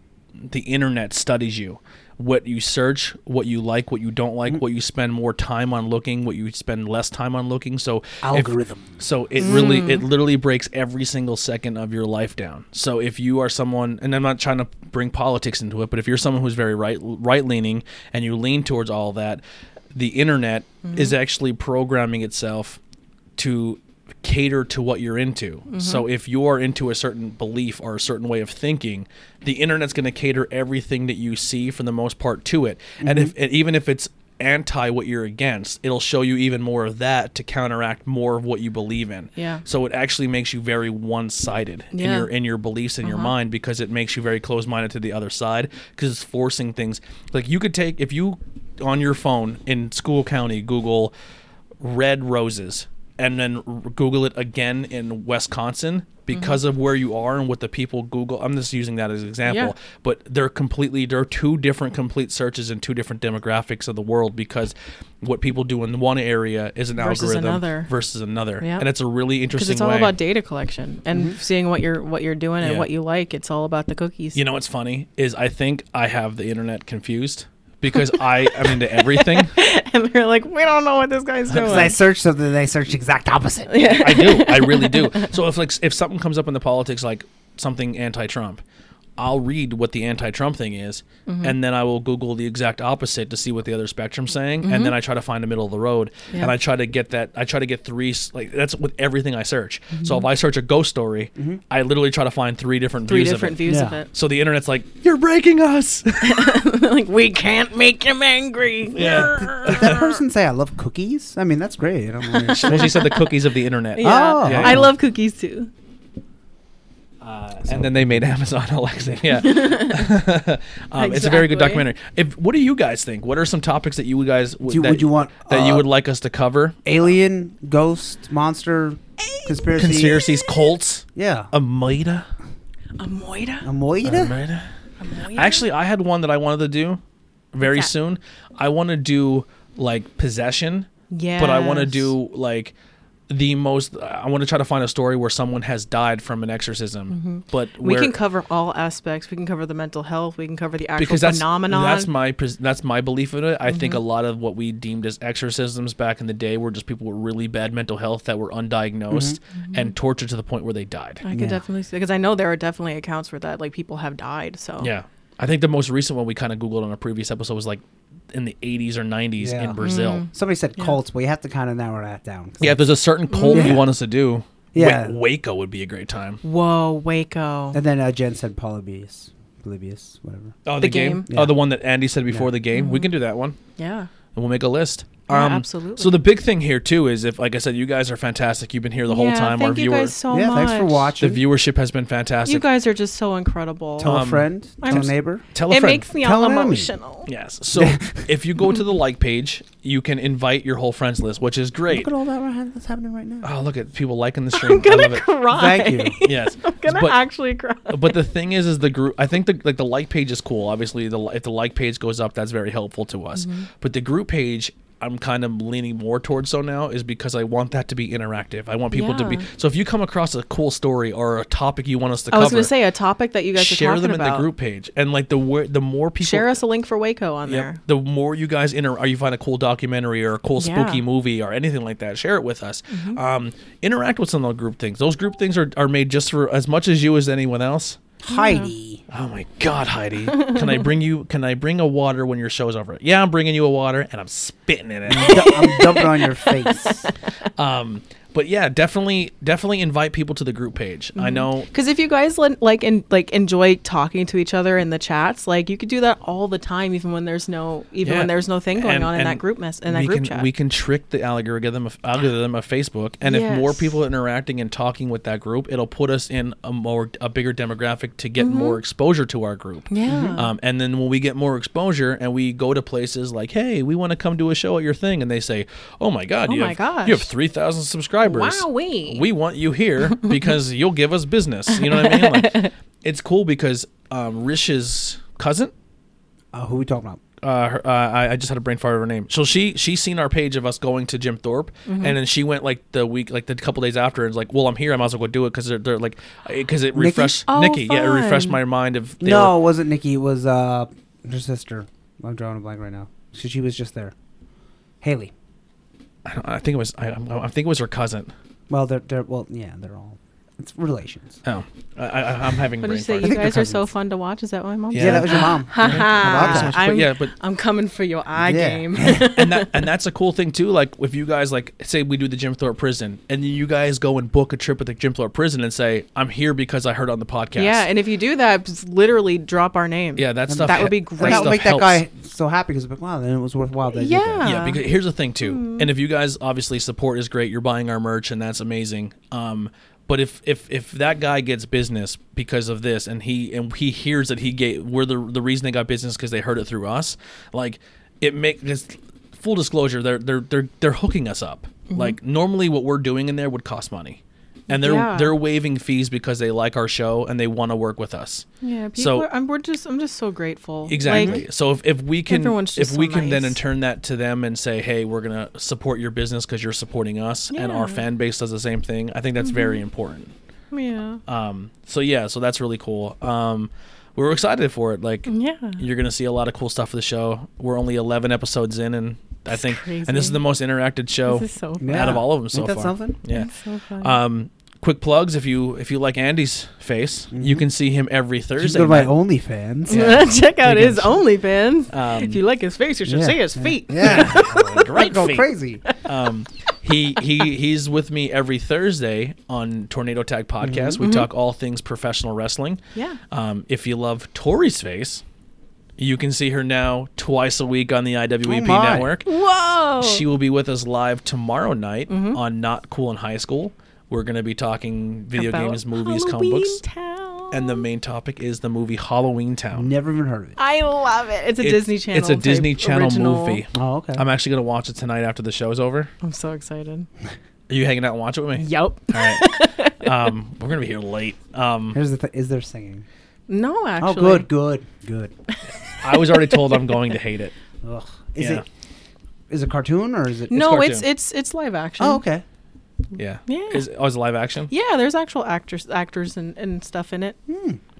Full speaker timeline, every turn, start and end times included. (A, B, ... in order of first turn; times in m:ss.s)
0:00.4-0:19.4 A
0:08.2-0:09.0 B
0:09.4-0:10.0 C
0:19.9-0:22.8 A
0:20.8-0:21.1 C
0:23.4-0:51.1 A
0:25.7-0:26.0 C
0:33.0-0:33.3 B
0:39.4-0:39.6 C
0:41.9-0:42.3 C
0:43.0-0:43.3 C
0:51.8-1:10.1 A
0:59.4-0:59.7 C
1:07.0-1:07.9 C
1:08.6-1:08.9 C
1:09.5-1:14.4 C
1:12.6-1:12.9 A
1:14.3-1:19.5 A
1:18.1-1:22.0 C
1:21.5-1:21.9 A
1:21.6-1:24.0 B
1:23.7-1:25.3 C
1:23.9-1:28.6 A
1:29.2-1:46.5 A
1:31.3-1:31.5 C
1:34.6-1:34.9 C
1:40.0-1:40.2 C
1:43.0-1:44.1 C
1:43.6-1:44.0 B
1:46.2-1:50.1 C
1:48.9-1:50.0 A
1:49.0-1:53.1 B
1:52.4-1:53.3 C
1:52.5-1:54.9 A
1:54.0-1:55.7 C
1:54.0-1:54.9 B
1:57.2-2:06.8 A
1:57.7-1:58.2 B
1:59.3-2:00.1 C
2:00.9-2:01.9 C
2:04.6-2:05.8 B
2:06.8-2:10.2 B
2:09.8-2:12.3 A
2:11.1-2:11.5 B
2:13.0-2:13.7 C
2:13.6-2:14.4 B
2:14.0-2:14.7 A
2:15.0-2:15.7 C
2:15.3-2:17.0 A
2:17.5-2:22.7 A
2:17.6-2:17.9 C
2:21.1-2:22.1 C
2:23.3-2:28.1 A
2:27.1-2:32.1 C
2:31.0-2:41.2 A
2:33.7-2:34.0 C
2:39.1-2:39.4 B
2:39.6-2:39.9 C
2:41.2-2:44.9 C
2:41.3-2:41.6 B
2:44.8-2:50.2 A
2:49.4-2:52.9 B
2:49.8-2:51.0 C
2:52.6-2:56.4 A
2:53.3-2:53.8 C
2:53.5-2:53.9 B
2:54.7-2:55.2 B
2:56.4-2:57.8 C
2:57.7-3:00.5 B
3:00.6-3:03.6 A
3:00.8-3:01.2 C
3:01.3-3:01.6 B
3:02.7-3:03.1 C
3:03.8-3:04.1 C
3:04.3-3:10.1 A
3:05.3-3:06.2 C
3:09.1-3:11.1 C
3:10.3-3:11.4 B
3:11.2-3:12.7 A
3:12.4-3:14.2 C
3:14.0-3:15.4 B
3:14.0-3:16.1 A
3:14.8-3:15.1 C
3:15.7-3:17.3 C
3:16.2-3:16.9 B
3:17.2-3:22.1 A
3:17.7-3:18.2 B
3:21.9-3:23.5 B
3:23.4-3:25.3 A
3:24.5-3:28.2 C
3:25.5-3:26.2 B
3:26.2-3:27.2 A
3:27.9-3:42.7 A
3:33.4-3:33.6 C
3:38.9-3:39.4 C
3:42.3-3:44.4 C
3:43.6-3:46.6 A
3:46.2-3:47.8 C
3:47.5-3:58.0 A
3:50.6-3:51.0 C
3:52.9-3:53.2 C
3:58.2-3:59.0 B
3:58.3-3:58.7 C
3:59.1-4:05.7 A
4:05.1-4:07.0 B
4:05.2-4:07.1 C
4:07.6-4:11.7 A
4:11.2-4:20.5 C
4:18.0-4:45.7 A
4:23.2-4:24.0 C
4:28.4-4:28.8 C
4:29.9-4:30.5 C
4:30.0-4:30.4 B
4:36.4-4:37.3 C
4:38.2-4:39.2 C
4:41.9-4:42.7 C
4:46.5-4:47.2 B
4:47.4-4:59.5 A
4:51.9-4:52.2 C
4:56.9-4:57.4 B
4:57.5-4:58.6 C
4:59.2-5:04.1 B
5:05.0-5:05.3 B
5:06.2-5:08.3 A
5:08.7-5:11.4 B
5:11.4-5:13.4 A
5:12.8-5:19.8 C
5:13.2-5:13.9 B
5:14.9-5:17.3 A
5:15.0-5:16.8 B
5:18.4-5:19.3 B
5:19.1-5:27.8 A
5:27.6-5:31.6 C
5:30.2-5:32.0 A
5:30.5-5:34.5 B
5:33.9-5:34.8 C
5:34.4-5:59.3 A
5:35.4-5:35.9 C
5:51.9-5:52.2 C
5:54.7-5:55.4 C
5:58.6-6:01.4 C
6:00.9-6:10.3 A
6:01.0-6:01.4 B
6:02.3-6:03.6 C
6:07.5-6:08.0 C
6:09.4-6:09.8 C
6:10.7-6:11.2 C
6:11.3-6:29.1 A
6:15.3-6:15.8 C
6:19.5-6:20.4 C
6:21.2-6:22.2 C
6:21.8-6:23.2 B
6:23.3-6:24.1 C
6:27.3-6:27.7 B
6:28.6-6:30.8 B
6:29.9-6:31.2 A
6:29.9-6:34.9 C
6:31.9-6:32.4 A
6:33.1-6:35.8 B
6:34.0-6:35.5 A
6:36.0-6:45.2 A
6:40.6-6:41.0 B
6:41.0-6:41.3 C
6:46.0-6:49.3 A
6:48.4-6:49.1 B
6:49.2-6:50.2 C
6:50.0-6:56.8 A
6:52.1-6:52.4 C
6:55.4-6:57.8 C
6:57.5-6:59.9 A
6:59.7-7:00.6 B
7:00.6-7:03.6 C
7:01.6-7:06.1 A
7:03.7-7:04.2 B
7:06.2-7:07.1 C
7:07.7-7:12.0 A
7:08.6-7:10.3 C
7:11.9-7:13.0 B
7:13.5-7:14.5 C
7:14.0-7:15.3 B
7:15.5-7:17.0 C
7:16.0-7:17.5 A
7:17.8-7:18.6 B
7:18.4-7:18.6 A
7:19.5-7:20.7 B
7:20.5-7:21.1 A
7:20.5-7:22.2 C
7:22.0-7:22.4 B
7:23.1-7:24.7 A
7:23.5-7:23.8 C
7:24.7-7:27.4 C
7:27.5-7:27.8 B